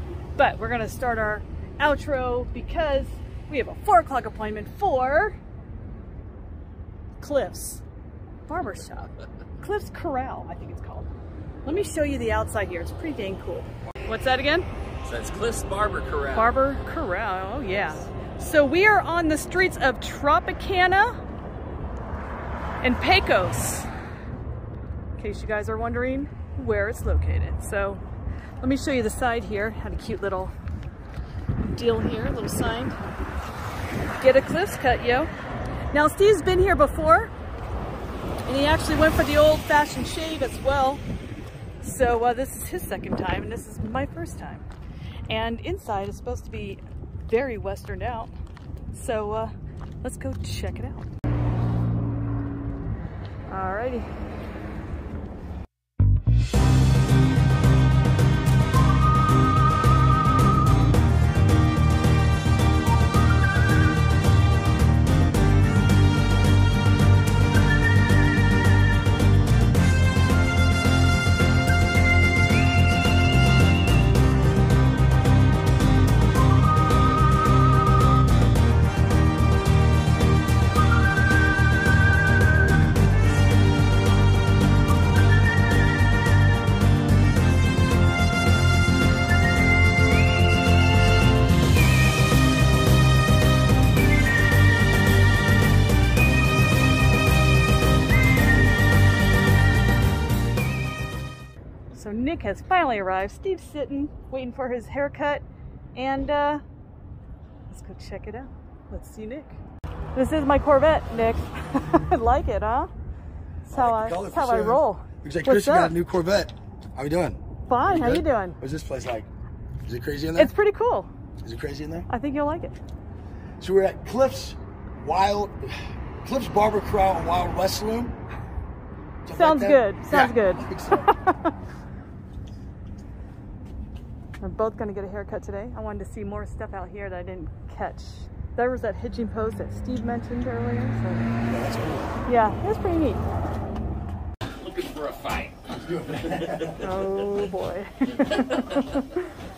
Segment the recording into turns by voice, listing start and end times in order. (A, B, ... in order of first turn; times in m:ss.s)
0:00.4-0:05.4 A
0:07.2-0:07.8 A
0:08.5-0:11.1 A
0:11.6-0:14.7 A
0:15.0-0:16.6 B
0:16.3-0:21.2 A
0:22.8-0:23.9 A
0:25.2-0:28.0 A
0:28.6-0:30.5 A
0:31.6-0:33.0 A
0:34.2-0:35.3 A
0:35.9-0:37.3 A
0:38.5-0:41.0 A
0:41.8-0:44.7 A
0:45.3-0:48.3 A
0:48.9-0:49.5 A
0:50.0-0:51.1 A
0:53.5-0:54.1 A
1:41.9-1:45.4 A
1:46.0-1:46.6 A
1:47.7-1:49.6 A
1:50.1-1:52.9 A
1:53.7-1:56.0 A
1:53.7-1:59.3 C
1:57.7-1:58.6 A
1:59.8-2:00.5 C
2:00.4-2:01.1 A
2:01.4-2:02.1 C
2:02.1-2:02.8 A
2:03.6-2:08.2 C
2:09.2-2:11.1 C
2:09.3-2:11.5 A
2:14.4-2:21.3 A
2:21.4-2:22.2 C
2:22.3-2:23.2 A
2:24.5-2:25.6 B
2:25.7-2:26.9 C
2:26.5-2:26.7 B
2:26.8-2:29.2 A